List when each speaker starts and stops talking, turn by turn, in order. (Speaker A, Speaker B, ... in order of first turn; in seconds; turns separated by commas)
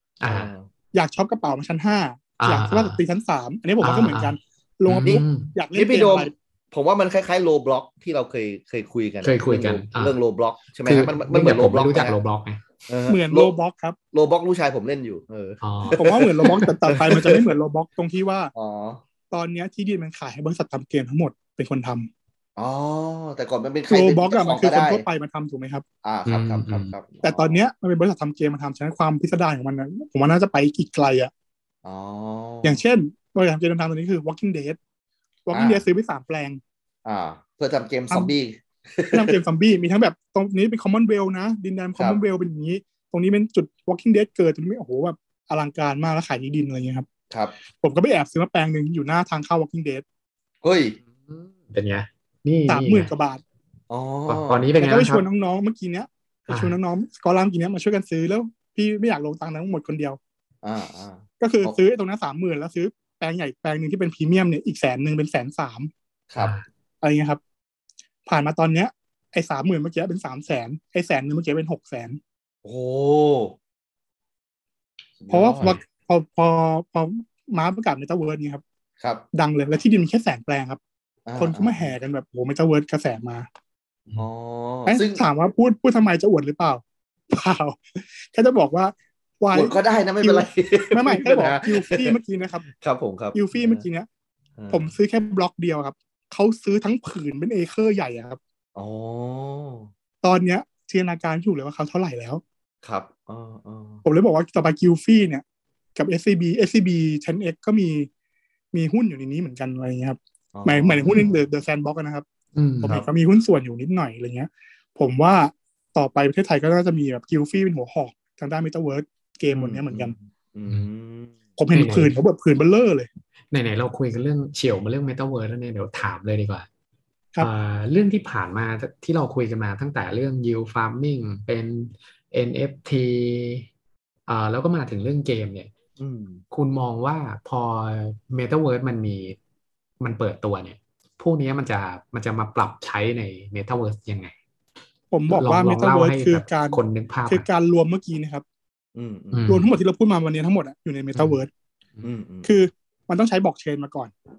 Speaker A: 0.2-0.5, Speaker B: 0.2-0.7, Speaker C: 0.9-6.3, Speaker A: 2.4-3.0, Speaker A: 3.8-4.3, Speaker A: 4.9-5.5, Speaker B: 5.7-12.2, Speaker A: 9.2-10.2, Speaker A: 10.8-12.6, Speaker B: 12.9-13.5, Speaker C: 13.1-13.9, Speaker B: 14.1-17.5, Speaker A: 15.6-16.2, Speaker C: 15.9-18.5, Speaker B: 18.5-19.0, Speaker C: 19.3-22.1, Speaker B: 22.6-25.1, Speaker C: 23.9-25.8, Speaker B: 26.0-27.6, Speaker A: 26.2-26.9, Speaker C: 27.2-31.3, Speaker B: 31.8-32.8, Speaker C: 32.6-34.8, Speaker C: 35.5-36.6, Speaker B: 35.5-35.8, Speaker B: 37.0-39.4, Speaker C: 39.1-47.1, Speaker B: 47.3-47.5, Speaker C: 47.8-50.0, Speaker B: 50.6-51.0, Speaker A: 51.2-53.1, Speaker C: 52.7-53.4, Speaker B: 53.9-54.8, Speaker A: 54.3-55.2, Speaker C: 54.8-60.2, Speaker A: 56.5-56.8, Speaker B: 60.6-61.8, Speaker C: 61.4-65.9, Speaker B: 66.3-66.5, Speaker A: 66.4-66.6, Speaker C: 67.0-67.4, Speaker C: 68.2-72.2, Speaker B: 72.6-73.5, Speaker B: 75.2-75.8, Speaker C: 75.3-78.6, Speaker B: 79.0-79.2, Speaker C: 79.3-80.8, Speaker B: 81.2-81.9, Speaker C: 81.4-83.5, Speaker B: 84.2-85.2, Speaker C: 84.8-92.6, Speaker B: 89.5-93.8, Speaker C: 93.3-94.1, Speaker B: 94.6-94.9, Speaker C: 94.7-98.4, Speaker B: 98.7-99.9, Speaker C: 100.2-102.4, Speaker B: 102.8-104.0, Speaker C: 104.0-105.4, Speaker C: 105.9-108.1, Speaker C: 108.7-112.2, Speaker B: 110.5-111.3, Speaker A: 112.5-113.0, Speaker C: 112.8-120.1, Speaker B: 119.5-121.3, Speaker C: 121.6-123.1, Speaker A: 121.7-122.1, Speaker A: 123.5-126.7, Speaker A: 127.4-133.7, Speaker A: 134.3-135.7, Speaker B: 136.0-136.4, Speaker A: 136.5-139.3, Speaker A: 140.0-144.3, Speaker C: 145.1-148.4, Speaker A: 145.3-147.4, Speaker B: 148.9-149.5, Speaker A: 149.3-149.7, Speaker C: 149.5-151.5, Speaker B: 152.0-152.6, Speaker C: 152.4-154.1